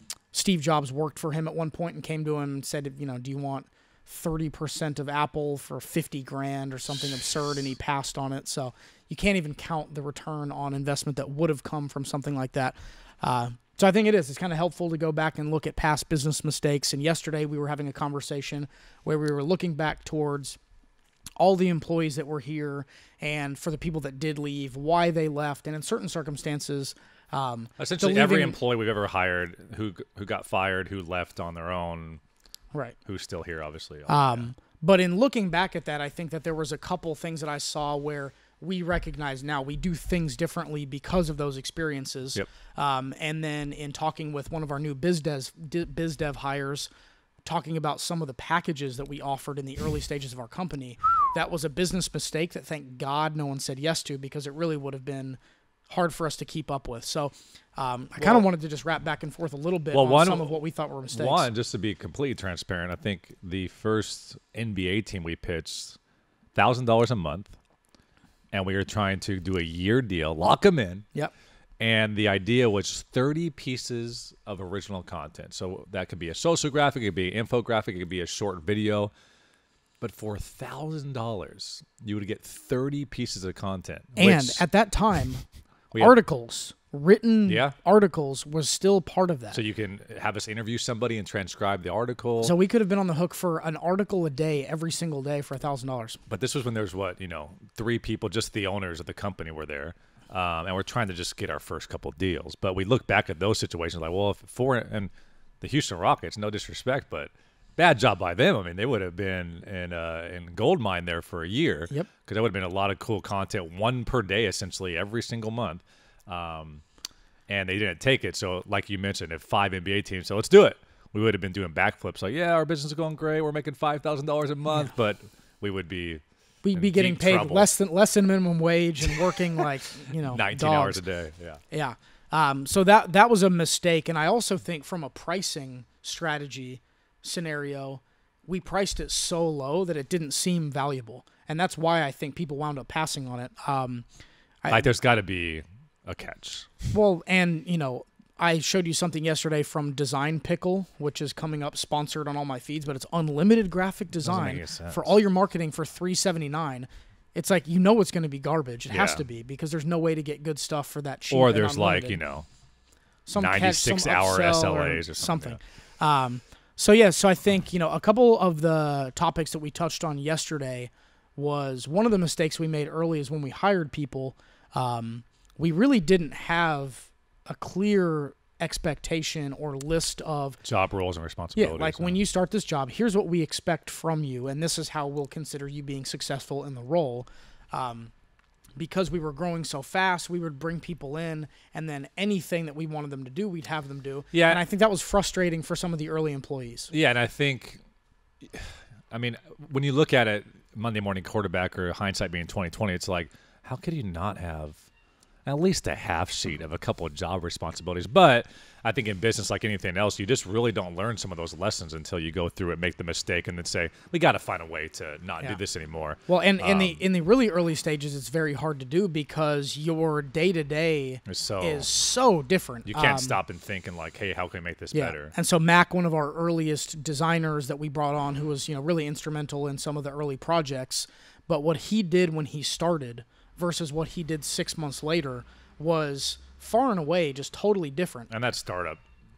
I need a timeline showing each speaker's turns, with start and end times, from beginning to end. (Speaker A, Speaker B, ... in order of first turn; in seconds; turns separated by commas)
Speaker A: 0.3-20.6, Speaker A: 21.4-28.6, Speaker B: 27.8-32.2, Speaker B: 33.0-34.5, Speaker A: 34.1-46.9, Speaker A: 47.5-61.5, Speaker B: 58.2-58.5, Speaker B: 59.9-60.6, Speaker B: 61.1-66.0, Speaker B: 66.5-67.6, Speaker B: 68.5-71.1, Speaker B: 71.8-79.1, Speaker B: 80.0-84.7, Speaker A: 84.2-85.4, Speaker A: 86.0-89.6, Speaker B: 87.5-87.8, Speaker B: 89.5-92.5, Speaker A: 92.4-96.2, Speaker B: 96.3-116.8, Speaker B: 117.5-126.2, Speaker A: 126.6-131.0, Speaker B: 126.7-127.7, Speaker B: 130.2-131.6, Speaker A: 131.7-144.1, Speaker B: 144.7-146.9, Speaker A: 146.9-162.2, Speaker B: 154.2-155.2, Speaker B: 158.9-159.2, Speaker B: 161.3-162.5, Speaker A: 163.3-180.6, Speaker B: 163.4-165.6, Speaker B: 180.7-182.2, Speaker A: 181.6-188.1, Speaker A: 188.8-196.9, Speaker B: 194.3-194.6, Speaker B: 196.9-197.8, Speaker B: 198.5-204.8, Speaker B: 205.5-217.0, Speaker A: 216.3-223.4, Speaker B: 221.3-221.9, Speaker B: 222.9-225.3, Speaker A: 224.9-238.3, Speaker B: 238.3-239.0